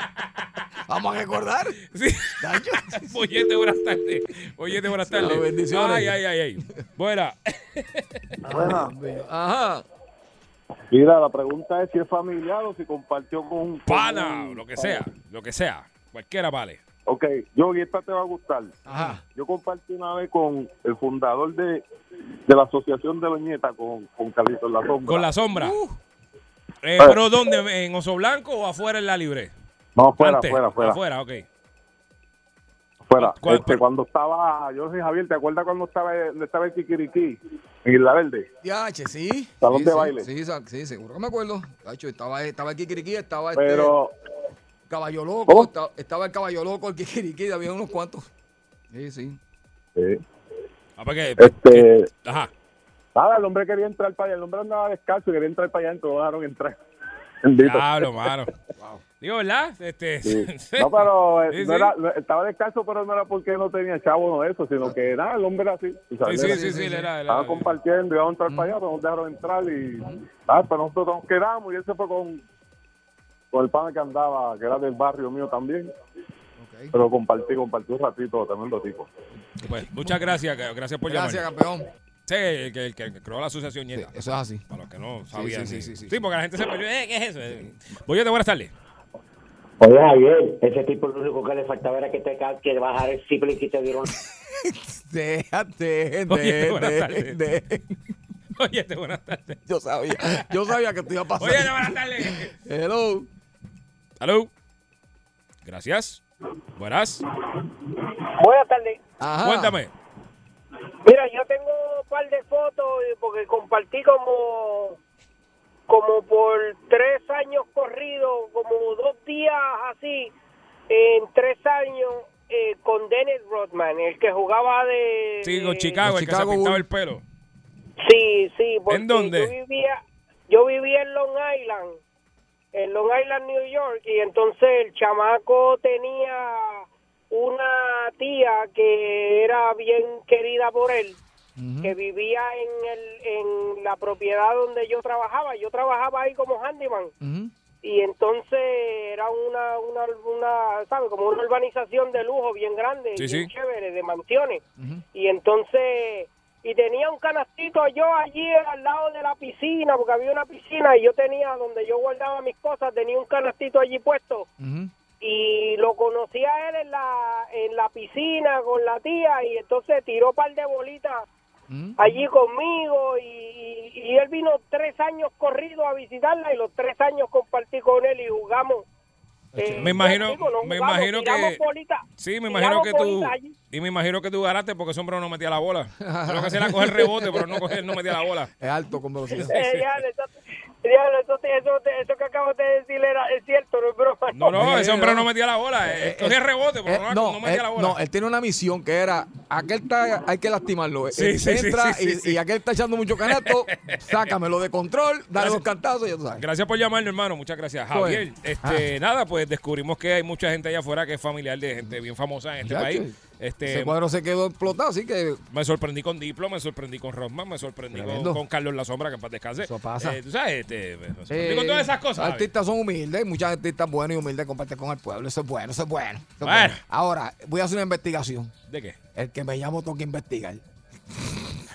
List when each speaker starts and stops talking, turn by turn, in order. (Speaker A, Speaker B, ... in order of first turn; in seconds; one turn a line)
Speaker A: 0.9-1.8
Speaker B: 1.9-2.4
Speaker A: 2.4-3.2
Speaker B: 3.0-8.0
Speaker A: 5.0-6.2
Speaker C: 8.5-8.9
Speaker A: 8.5-9.8
Speaker C: 10.9-15.0
Speaker B: 13.9-16.8
Speaker C: 17.1-18.8
Speaker A: 18.9-19.2
Speaker C: 19.4-21.8
Speaker C: 22.5-25.3
Speaker B: 25.1-25.8
Speaker A: 25.5-26.0
Speaker B: 26.8-29.5
Speaker C: 30.0-31.0
Speaker B: 30.2-31.4
Speaker C: 33.0-38.5
Speaker B: 33.2-33.8
Speaker A: 38.6-43.9
Speaker C: 39.6-40.2
Speaker C: 43.6-44.1
Speaker A: 44.9-48.3
Speaker A: 48.9-49.4
Speaker B: 51.0-52.5
Speaker C: 51.4-52.1
Speaker C: 53.1-56.8
Speaker C: 57.4-58.1
Speaker B: 57.6-58.5
Speaker A: 58.8-59.0
Speaker B: 59.2-61.9
Speaker C: 60.2-66.7
Speaker B: 66.2-67.7
Speaker A: 66.4-67.1
Speaker C: 67.3-72.4
Speaker A: 68.5-68.7
Speaker C: 73.5-75.9
Speaker A: 76.6-77.0
Speaker C: 76.9-79.1
Speaker A: 79.6-80.2
Speaker B: 79.6-81.5
Speaker A: 81.1-81.9
Speaker B: 82.3-84.1
Speaker A: 83.9-84.6
Speaker B: 84.7-88.7
Speaker A: 85.3-86.2
Speaker D: 89.8-94.1
Speaker A: 94.6-98.0
Speaker B: 96.3-97.4
Speaker B: 98.6-99.6
Speaker A: 99.7-103.3
Speaker B: 101.4-102.5
Speaker B: 104.2-104.5
Speaker B: 105.6-106.2
Speaker B: 106.8-107.2
Speaker E: 108.4-109.0
Speaker A: 109.2-109.8
Speaker B: 109.4-109.9
Speaker E: 111.0-115.0
Speaker E: 115.9-120.3
Speaker E: 120.9-126.0
Speaker B: 125.4-127.2
Speaker A: 126.0-126.8
Speaker E: 128.0-132.0
Speaker B: 128.9-129.5
Speaker E: 132.7-141.2
Speaker A: 141.6-141.9
Speaker E: 141.8-147.1
Speaker A: 147.2-147.5
Speaker E: 147.8-154.6
Speaker B: 153.2-153.5
Speaker A: 154.8-155.0
Speaker E: 155.1-164.5
Speaker A: 164.6-164.9
Speaker E: 165.2-171.3
Speaker A: 171.7-172.1
Speaker E: 172.0-178.8
Speaker A: 179.5-180.1
Speaker E: 179.6-183.6
Speaker B: 179.8-181.6
Speaker B: 182.2-188.5
Speaker A: 186.0-188.0
Speaker A: 188.6-189.6
Speaker B: 189.3-190.0
Speaker E: 189.5-190.3
Speaker E: 190.8-194.6
Speaker B: 194.3-198.0
Speaker A: 194.5-195.3
Speaker A: 195.8-206.4
Speaker B: 201.1-202.4
Speaker B: 203.2-204.0
Speaker B: 205.4-205.6
Speaker B: 206.4-213.9
Speaker A: 207.9-208.9
Speaker A: 212.6-213.1
Speaker A: 213.7-215.4
Speaker B: 215.5-222.5
Speaker A: 217.9-218.4
Speaker A: 219.6-220.2
Speaker A: 221.3-228.5
Speaker B: 226.4-226.8
Speaker B: 228.7-229.0
Speaker A: 229.2-230.6
Speaker A: 231.2-231.5